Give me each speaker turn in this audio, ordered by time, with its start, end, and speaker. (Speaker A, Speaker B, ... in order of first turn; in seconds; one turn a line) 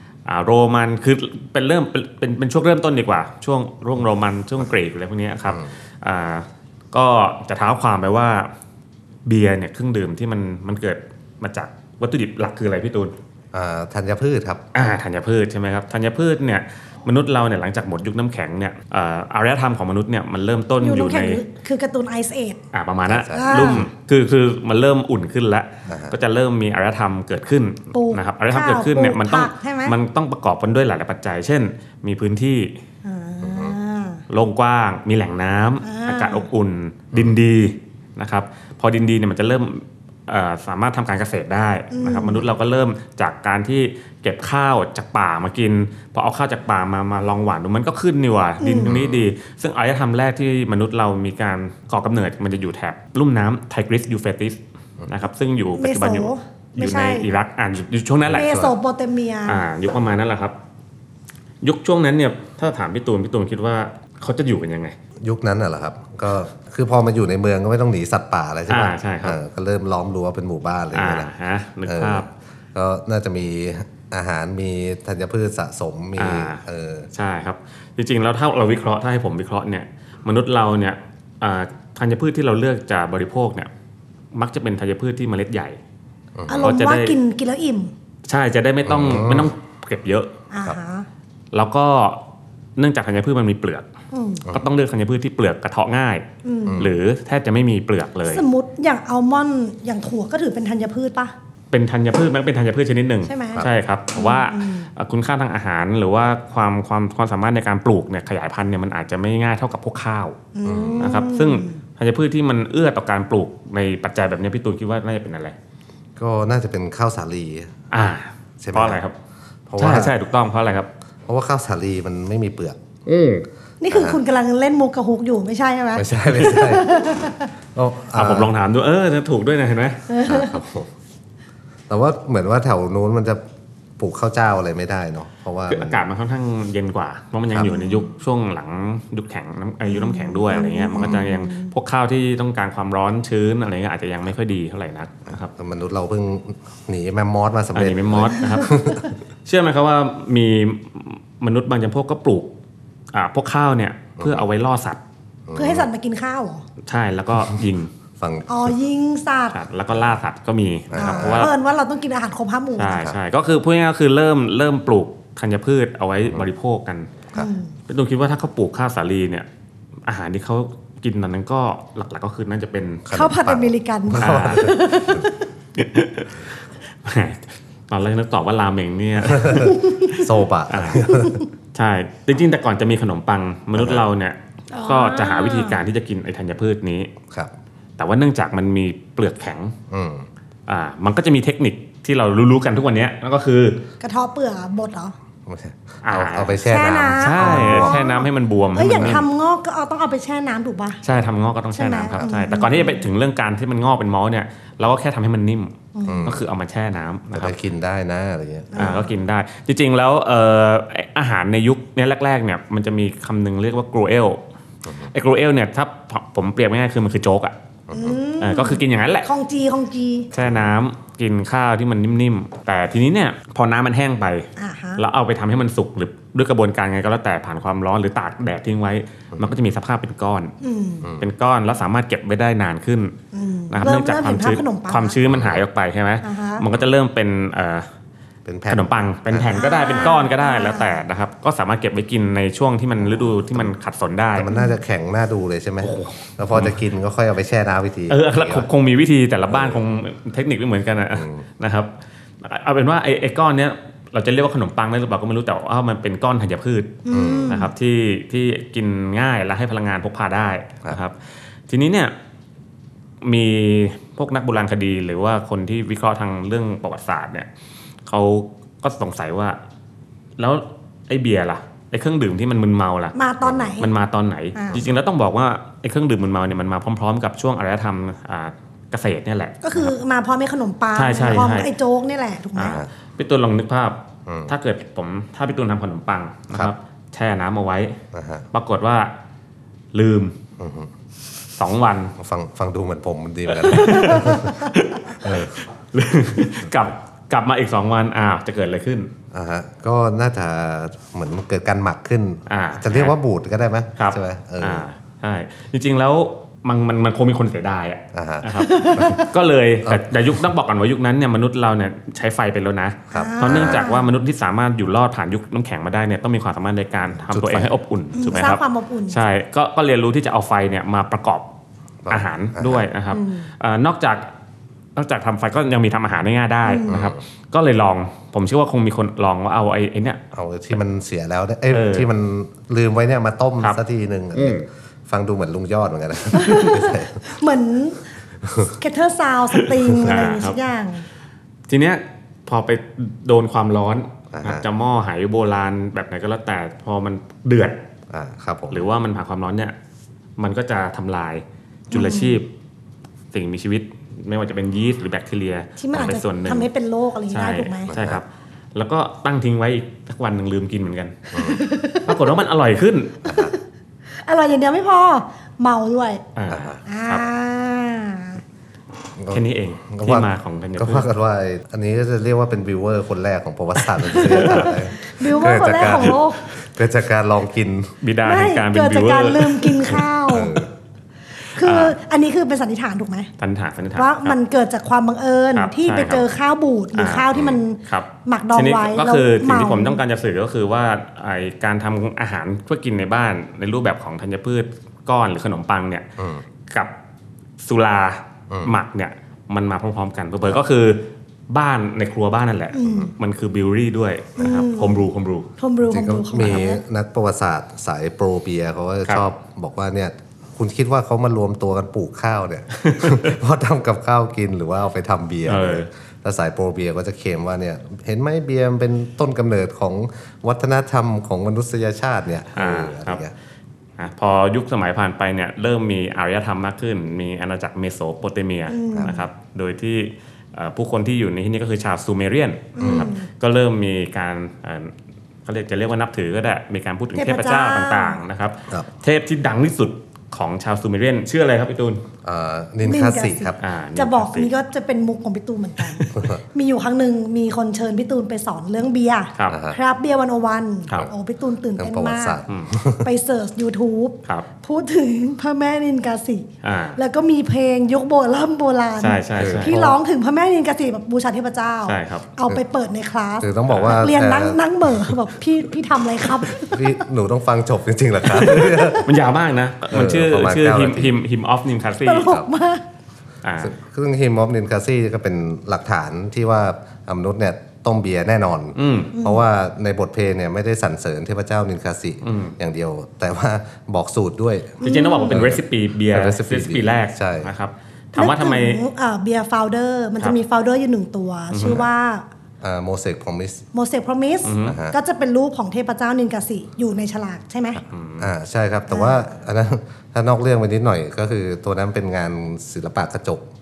Speaker A: 0.2-8.5
Speaker A: 9.2-13.1
Speaker B: 13.5-14.8
Speaker A: 14.7-21.4
Speaker C: 20.8-22.6
Speaker A: 22.7-32.8
Speaker B: 23.1-23.9
Speaker C: 23.3-23.8
Speaker B: 25.9-26.1
Speaker C: 27.9-29.9
Speaker C: 33.0-34.2
Speaker B: 33.4-33.8
Speaker A: 34.3-58.6
Speaker C: 35.8-36.5
Speaker C: 41.9-42.4
Speaker C: 48.6-48.9
Speaker B: 48.8-49.3
Speaker C: 55.8-57.3
Speaker B: 58.3-58.7
Speaker C: 58.3-59.6
Speaker A: 59.5-60.5
Speaker A: 61.6-65.0
Speaker B: 65.2-71.3
Speaker A: 68.7-69.4
Speaker A: 70.9-72.2
Speaker B: 71.8-77.1
Speaker A: 76.2-76.6
Speaker A: 77.1-83.7
Speaker A: 84.3-85.8
Speaker B: 86.3-86.8
Speaker C: 86.5-87.9
Speaker A: 86.6-87.2
Speaker A: 88.2-90.3
Speaker B: 88.8-89.5
Speaker C: 90.5-91.1
Speaker A: 91.5-92.2
Speaker A: 92.8-93.8
Speaker C: 94.1-94.4
Speaker A: 94.5-96.2
Speaker C: 96.4-96.8
Speaker B: 96.7-96.9
Speaker A: 96.8-98.4
Speaker C: 98.3-101.3
Speaker A: 101.7-110.4
Speaker C: 103.2-103.6
Speaker C: 104.1-104.9
Speaker C: 110.5-111.8
Speaker B: 110.6-111.2
Speaker A: 111.0-115.5
Speaker B: 116.2-117.7
Speaker A: 117.9-119.1
Speaker B: 118.6-119.0
Speaker B: 119.7-120.2
Speaker A: 119.8-120.9
Speaker B: 121.3-122.8
Speaker A: 123.0-123.4
Speaker C: 123.8-127.5
Speaker B: 123.9-124.2
Speaker B: 125.9-127.1
Speaker B: 127.7-128.5
Speaker A: 128.1-130.1
Speaker C: 130.1-130.6
Speaker B: 130.2-130.9
Speaker B: 131.9-133.4
Speaker B: 134.0-136.1
Speaker A: 135.7-145.5
Speaker C: 137.6-138.0
Speaker C: 139.8-141.7
Speaker B: 145.5-149.1
Speaker A: 147.7-148.8
Speaker C: 148.6-149.1
Speaker A: 149.4-152.5
Speaker A: 153.1-155.0
Speaker B: 154.2-154.4
Speaker B: 155.5-155.9
Speaker C: 155.5-156.6
Speaker A: 156.8-157.9
Speaker B: 158.2-158.7
Speaker C: 158.5-159.6
Speaker A: 159.5-161.5
Speaker B: 160.9-161.5
Speaker C: 160.9-163.0
Speaker A: 162.8-167.1
Speaker B: 162.9-163.2
Speaker C: 167.3-167.7
Speaker A: 167.9-169.4
Speaker A: 170.1-173.1
Speaker B: 173.1-175.2
Speaker C: 173.1-175.5
Speaker A: 174.1-174.7
Speaker A: 175.7-179.8
Speaker B: 179.3-181.4
Speaker C: 179.6-180.2
Speaker A: 180.7-181.1
Speaker C: 181.0-181.4
Speaker A: 181.7-187.1
Speaker B: 183.8-184.0
Speaker C: 184.7-185.8
Speaker A: 188.0-189.7
Speaker B: 189.9-190.3
Speaker A: 190.7-193.8
Speaker C: 194.0-195.1
Speaker B: 195.4-198.0
Speaker A: 196.0-196.7
Speaker C: 196.6-201.0
Speaker A: 197.2-199.2
Speaker A: 201.0-207.6
Speaker C: 201.7-203.1
Speaker C: 205.9-206.3
Speaker B: 206.1-206.5
Speaker B: 207.3-208.9
Speaker C: 208.7-209.1
Speaker A: 208.7-214.4
Speaker B: 214.8-215.1
Speaker A: 215.1-217.5
Speaker B: 217.9-218.2
Speaker C: 217.9-220.3
Speaker A: 218.4-219.3
Speaker A: 220.3-230.5
Speaker B: 220.4-220.7
Speaker C: 224.6-225.0
Speaker C: 230.6-231.0
Speaker B: 231.0-231.3
Speaker A: 231.2-233.1
Speaker C: 233.3-235.2
Speaker A: 233.7-237.9
Speaker B: 235.3-235.6
Speaker C: 236.2-236.6
Speaker B: 238.4-239.6
Speaker A: 238.7-244.5
Speaker C: 239.5-241.0
Speaker B: 243.0-243.7
Speaker B: 244.3-248.7
Speaker C: 244.5-244.7
Speaker A: 245.8-246.8
Speaker A: 248.1-251.9
Speaker B: 249.5-249.8
Speaker B: 251.2-251.4
Speaker A: 252.4-261.2
Speaker C: 257.0-257.7
Speaker B: 257.1-257.6
Speaker A: 261.7-262.1
Speaker A: 263.2-267.5
Speaker A: 268.1-269.6
Speaker A: 270.4-273.1
Speaker C: 273.1-273.9
Speaker A: 273.8-279.9
Speaker C: 279.6-282.8
Speaker A: 280.9-281.7
Speaker A: 282.6-288.0
Speaker B: 284.2-284.5
Speaker B: 288.1-288.5
Speaker A: 288.5-289.1
Speaker A: 289.9-290.3
Speaker B: 290.6-290.9
Speaker A: 291.6-292.1
Speaker B: 292.2-295.6
Speaker A: 293.6-299.1
Speaker B: 299.3-304.9
Speaker A: 302.5-303.1
Speaker A: 304.0-321.4
Speaker B: 308.1-309.2
Speaker C: 308.6-309.3
Speaker B: 309.8-310.4
Speaker B: 313.1-313.9
Speaker C: 313.1-314.0
Speaker B: 317.3-317.7
Speaker C: 318.1-319.2
Speaker B: 322.0-322.9
Speaker A: 322.1-324.3
Speaker C: 323.1-323.5
Speaker A: 324.9-330.2
Speaker C: 326.6-327.0
Speaker B: 326.9-327.2
Speaker B: 330.3-337.2
Speaker A: 331.7-332.1
Speaker A: 334.3-334.7
Speaker C: 336.3-338.0
Speaker B: 338.4-338.8
Speaker C: 338.8-341.0
Speaker B: 339.9-340.2
Speaker A: 340.0-340.6
Speaker A: 341.7-347.8
Speaker B: 344.3-344.6
Speaker B: 348.1-348.9
Speaker A: 348.7-349.7
Speaker A: 350.4-352.5
Speaker C: 351.9-352.4
Speaker A: 353.3-356.7
Speaker C: 355.8-357.9
Speaker A: 357.3-361.3
Speaker B: 357.9-358.2
Speaker B: 361.3-361.6
Speaker C: 361.3-362.2
Speaker A: 362.0-363.2
Speaker B: 363.2-363.5
Speaker C: 363.3-363.6
Speaker C: 364.2-366.2
Speaker A: 366.3-367.2
Speaker B: 366.5-366.8
Speaker C: 366.9-368.4
Speaker B: 369.2-377.9
Speaker A: 369.3-371.1
Speaker C: 374.0-376.4
Speaker A: 374.1-374.8
Speaker A: 375.5-376.1
Speaker A: 378.0-380.1
Speaker C: 378.2-380.6
Speaker B: 380.3-380.7
Speaker C: 381.5-383.3
Speaker A: 381.6-382.0
Speaker A: 383.4-384.4
Speaker C: 383.9-390.0
Speaker A: 385.5-386.3
Speaker A: 386.9-396.1
Speaker B: 396.2-396.4
Speaker A: 397.6-405.5
Speaker B: 398.5-398.7
Speaker C: 402.7-403.1
Speaker C: 404.4-405.1
Speaker C: 405.6-406.8
Speaker B: 405.9-423.3
Speaker A: 412.8-413.3
Speaker A: 415.4-415.9
Speaker A: 422.5-423.2
Speaker A: 424.0-434.9
Speaker C: 428.7-429.2
Speaker B: 428.9-429.2
Speaker C: 432.8-433.2
Speaker B: 432.8-433.1
Speaker A: 435.4-442.0
Speaker C: 437.1-438.2
Speaker B: 442.2-443.6
Speaker C: 442.8-452.4
Speaker A: 443.6-444.5
Speaker B: 446.1-446.4
Speaker B: 449.5-449.8
Speaker B: 451.8-453.1
Speaker C: 453.0-466.9
Speaker A: 456.6-457.0
Speaker A: 459.0-459.8
Speaker B: 459.4-460.0
Speaker A: 461.8-462.3
Speaker B: 463.4-465.2
Speaker A: 463.7-464.0
Speaker B: 466.5-469.1
Speaker A: 468.3-472.4
Speaker B: 469.9-471.1
Speaker C: 472.0-472.8
Speaker A: 473.4-473.7
Speaker B: 473.6-487.5
Speaker A: 478.8-479.1
Speaker C: 479.1-479.4
Speaker A: 482.2-482.6
Speaker A: 484.8-488.8
Speaker C: 484.8-485.4
Speaker C: 488.2-492.2
Speaker A: 491.5-491.8
Speaker B: 492.6-493.6
Speaker C: 493.7-497.8
Speaker A: 494.4-494.8
Speaker B: 494.6-494.9
Speaker A: 497.9-498.3
Speaker B: 498.2-503.5
Speaker C: 498.9-499.2